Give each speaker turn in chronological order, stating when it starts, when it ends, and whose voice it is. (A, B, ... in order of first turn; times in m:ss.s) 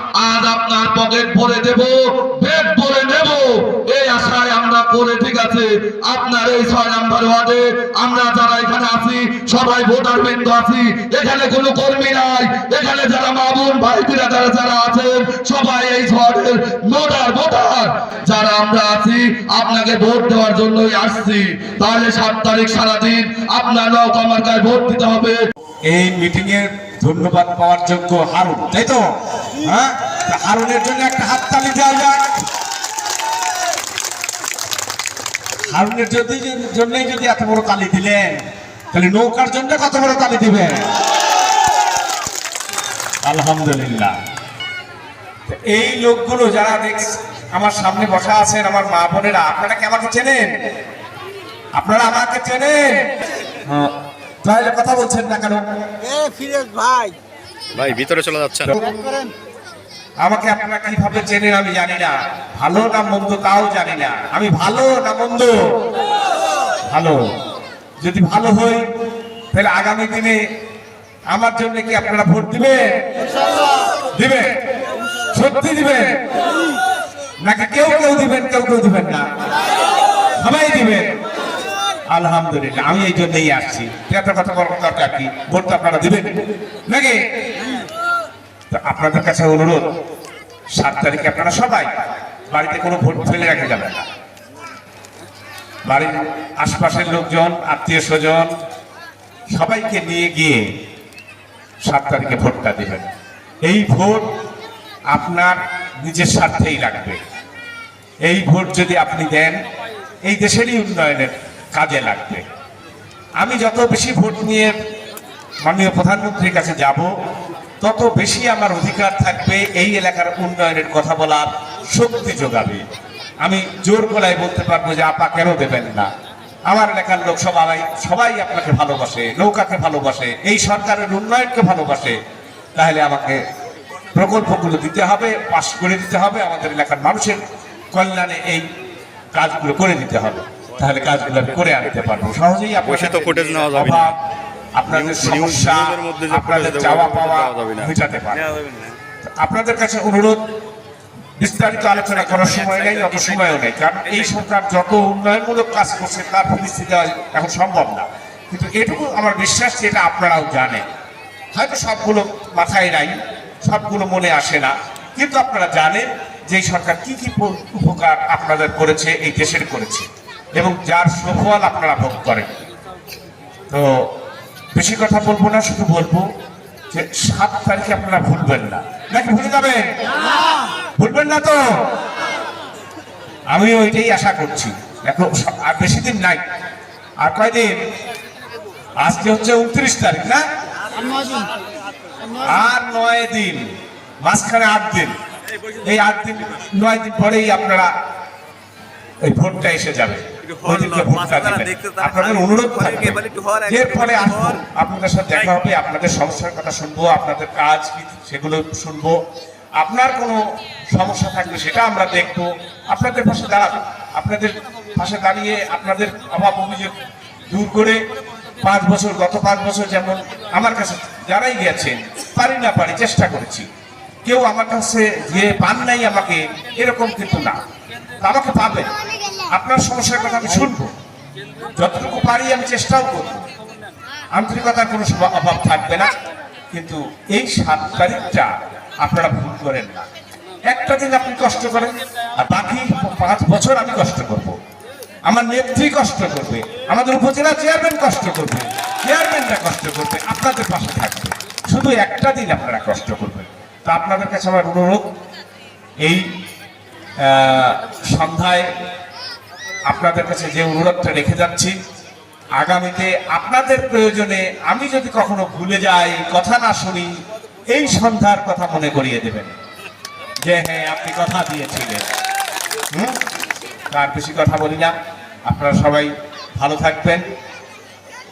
0:00.2-0:25.4 A
0:25.9-0:29.0 B
0:29.6-0:32.3 B
0:35.7-0:38.4 B
0:38.9-0:40.9 B
0:43.2-0:44.1 B
0:45.5-0:50.4 B
0:51.8-0:53.0 B
0:54.4-0:55.6 B
0:57.7-0:58.7 C
1:00.2-1:05.5 B
1:06.9-1:07.2 B
1:08.0-1:08.8 B
1:09.5-1:10.4 B
1:11.3-1:12.8 B
1:14.1-1:14.5 B
1:15.3-1:16.2 B
1:17.4-1:19.2 B
1:20.4-1:21.1 B
1:22.1-1:26.3 B
1:26.9-1:27.2 B
1:28.7-1:29.8 B
1:30.8-1:31.9 B
1:32.5-1:34.0 B
1:35.9-1:38.5 B
1:39.5-1:40.6 B
1:41.9-1:43.1 B
1:43.6-1:44.2 B
1:45.1-1:47.2 B
1:48.2-1:49.5 B
1:50.3-1:52.4 B
1:53.4-1:54.7 B
1:55.6-1:57.1 B
1:57.8-2:02.8 B
2:03.4-2:06.1 B
2:06.7-2:12.2 B
2:12.8-2:13.4 B
2:14.1-2:17.4 B
2:17.9-2:18.6 B
2:19.3-2:24.1 B
2:22.8-2:24.1 C
2:24.8-2:28.5 B
2:24.9-2:27.9 C
2:28.5-2:29.0 C
2:29.4-2:30.4 B
2:31.4-2:40.8 B
2:32.2-2:33.6 C
2:41.5-2:43.1 B
2:43.6-2:50.1 B
2:50.6-2:52.5 B
2:54.8-2:56.2 B
2:56.9-2:59.8 B
3:01.0-3:01.6 B
3:03.5-3:06.4 B
3:07.2-3:07.7 B
3:09.0-3:10.4 B
3:12.4-3:13.6 B
3:14.2-3:15.1 B
3:15.8-3:17.9 B
3:19.2-3:29.2 B
3:20.6-3:24.6 C
3:29.8-3:30.4 B
3:30.9-3:37.0 B
3:37.5-3:38.0 B
3:38.6-3:43.7 B
3:44.2-3:47.6 B
3:48.2-3:48.9 B
3:49.5-3:50.9 B
3:51.8-3:53.4 B
3:54.4-3:56.1 B
3:56.7-3:58.5 B
3:59.0-4:00.0 B
4:00.7-4:04.6 B
4:05.3-4:15.0 B
4:17.2-4:18.7 B
4:19.9-4:21.8 B
4:22.6-4:27.1 B
4:27.7-4:29.6 B
4:30.4-4:32.1 B
4:33.9-4:34.9 B
4:35.5-4:37.2 B